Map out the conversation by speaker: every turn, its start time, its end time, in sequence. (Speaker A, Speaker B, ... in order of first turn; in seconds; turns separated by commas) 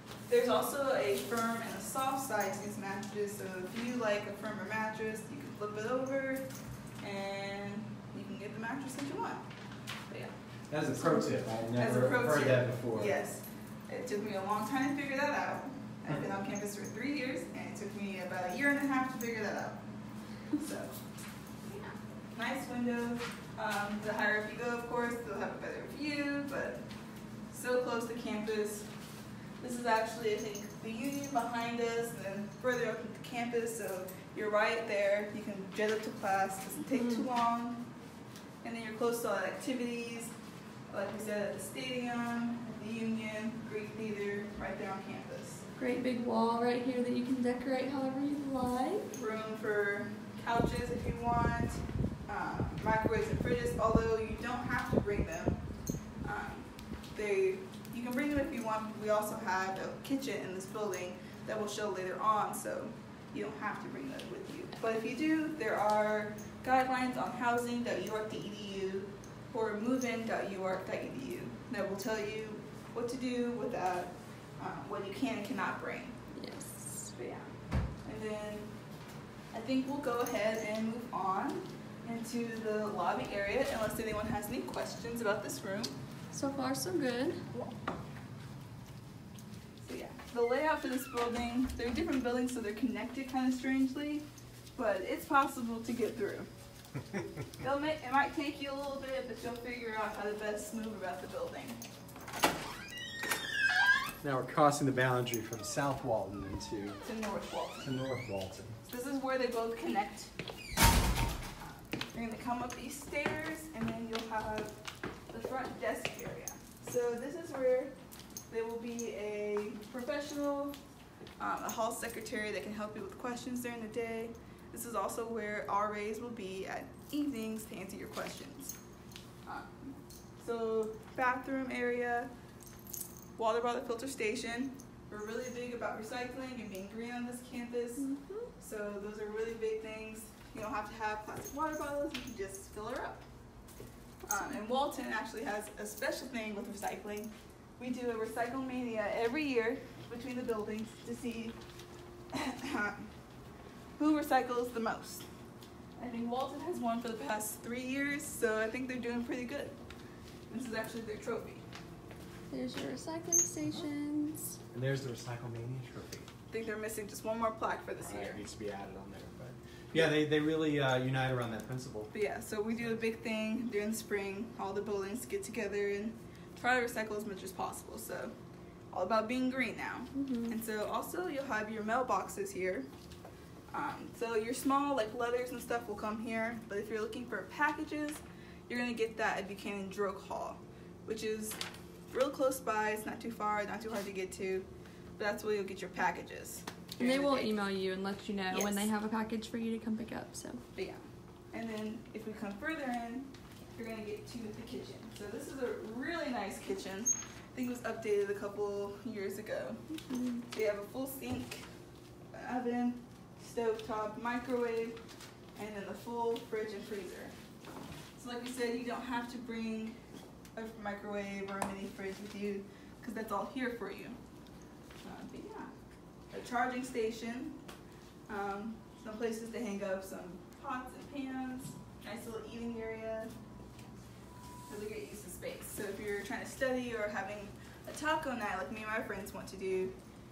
Speaker A: 0.3-6.5, Speaker A: 7.0-9.4, Speaker B: 10.7-13.2, Speaker C: 11.0-11.3, Speaker A: 11.8-19.8, Speaker A: 20.4-21.0, Speaker A: 21.6-26.8, Speaker A: 27.5-28.9, Speaker A: 29.6-37.9, Speaker C: 36.9-37.3, Speaker A: 38.6-40.3, Speaker A: 40.9-45.6, Speaker C: 45.8-49.1, Speaker A: 49.1-55.6, Speaker A: 56.2-76.2, Speaker C: 76.3-77.1, Speaker A: 77.1-77.5, Speaker A: 78.0-78.7, Speaker A: 79.5-86.0, Speaker C: 86.3-87.4, Speaker A: 89.8-94.2, Speaker A: 94.8-96.5, Speaker A: 97.6-101.8, Speaker B: 104.2-107.0, Speaker A: 107.0-107.9, Speaker B: 107.8-108.8, Speaker A: 108.9-110.3, Speaker A: 111.6-114.8, Speaker A: 115.3-118.0, Speaker A: 118.5-120.8, Speaker A: 121.4-128.8, Speaker A: 129.5-132.3, Speaker A: 133.4-138.1, Speaker C: 138.0-138.5, Speaker A: 138.6-143.2, Speaker A: 144.2-151.6, Speaker A: 152.3-153.1, Speaker A: 154.0-155.2, Speaker A: 156.0-159.8, Speaker A: 160.5-161.6, Speaker C: 162.5-164.6, Speaker B: 164.7-166.3, Speaker A: 166.5-168.4, Speaker B: 168.0-172.1, Speaker A: 172.1-178.3, Speaker A: 178.9-182.9, Speaker C: 180.2-180.5, Speaker A: 183.7-191.6, Speaker A: 192.1-197.5, Speaker C: 197.0-200.6, Speaker A: 198.5-198.9, Speaker A: 200.8-209.8, Speaker C: 210.0-210.5, Speaker A: 210.5-211.7, Speaker A: 212.3-215.0, Speaker A: 215.6-217.3, Speaker A: 218.2-220.0, Speaker A: 220.6-224.2, Speaker A: 225.0-225.7, Speaker A: 226.3-227.6, Speaker A: 228.3-233.3, Speaker A: 234.7-239.9